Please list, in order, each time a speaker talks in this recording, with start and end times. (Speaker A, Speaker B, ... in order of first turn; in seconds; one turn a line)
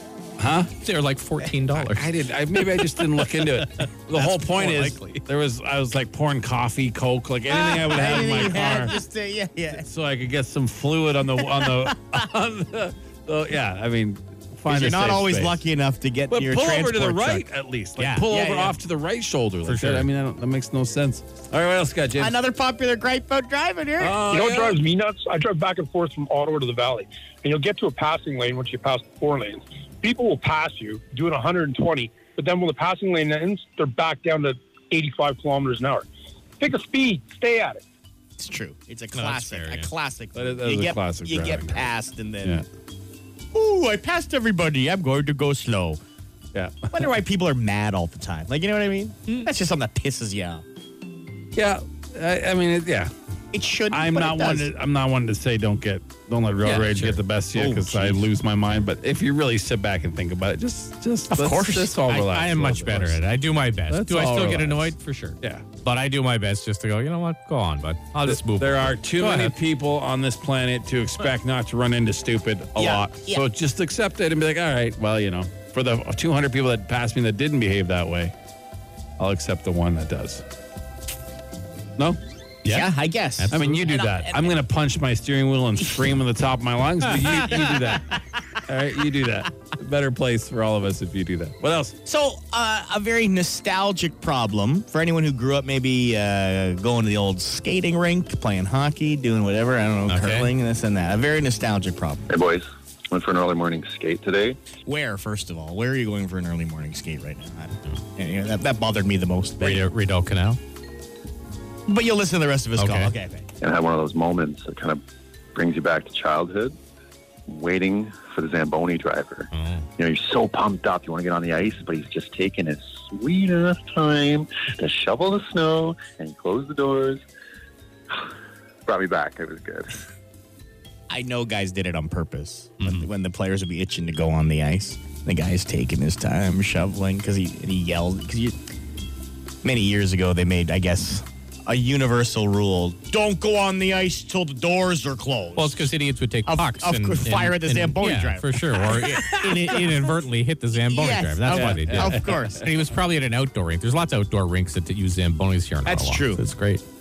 Speaker A: 0.4-0.7
Speaker B: 0.8-2.1
Speaker A: 1.7-8.9
Speaker B: 3.6-5.2
Speaker C: 7.5-9.9
Speaker A: 9.7-15.6
Speaker C: 11.4-12.2
Speaker C: 14.7-17.4
Speaker A: 16.3-22.4
Speaker B: 18.0-18.2
Speaker C: 18.3-18.8
Speaker B: 19.7-20.1
Speaker C: 22.2-24.2
Speaker A: 24.0-24.8
Speaker D: 24.3-36.1
Speaker D: 36.6-37.8
Speaker C: 38.4-42.6
Speaker B: 39.1-39.9
Speaker A: 40.4-41.9
Speaker C: 43.5-46.0
Speaker A: 46.5-46.9
Speaker C: 46.9-50.6
Speaker A: 51.5-53.1
Speaker C: 53.5-54.7
Speaker A: 53.9-63.2
Speaker B: 56.6-57.2
Speaker C: 57.5-58.2
Speaker C: 61.3-62.0
Speaker B: 62.1-69.5
Speaker A: 63.9-65.7
Speaker A: 68.3-78.3
Speaker C: 72.8-73.5
Speaker A: 79.2-80.4
Speaker B: 82.6-83.8
Speaker C: 82.7-84.6
Speaker A: 83.5-92.0
Speaker C: 87.3-88.2
Speaker C: 92.0-102.3
Speaker B: 100.1-100.5
Speaker E: 102.3-104.6
Speaker C: 104.8-109.8
Speaker B: 109.6-110.6
Speaker C: 111.9-113.5
Speaker B: 112.8-113.1
Speaker E: 113.6-115.0
Speaker E: 115.5-116.8
Speaker E: 117.5-127.2
Speaker B: 119.5-119.9
Speaker E: 128.9-129.9
Speaker C: 131.1-138.6
Speaker B: 132.8-133.1
Speaker C: 139.6-145.9
Speaker B: 145.6-156.8
Speaker C: 146.5-150.2
Speaker C: 150.8-152.7
Speaker A: 151.5-152.6
Speaker C: 155.9-156.4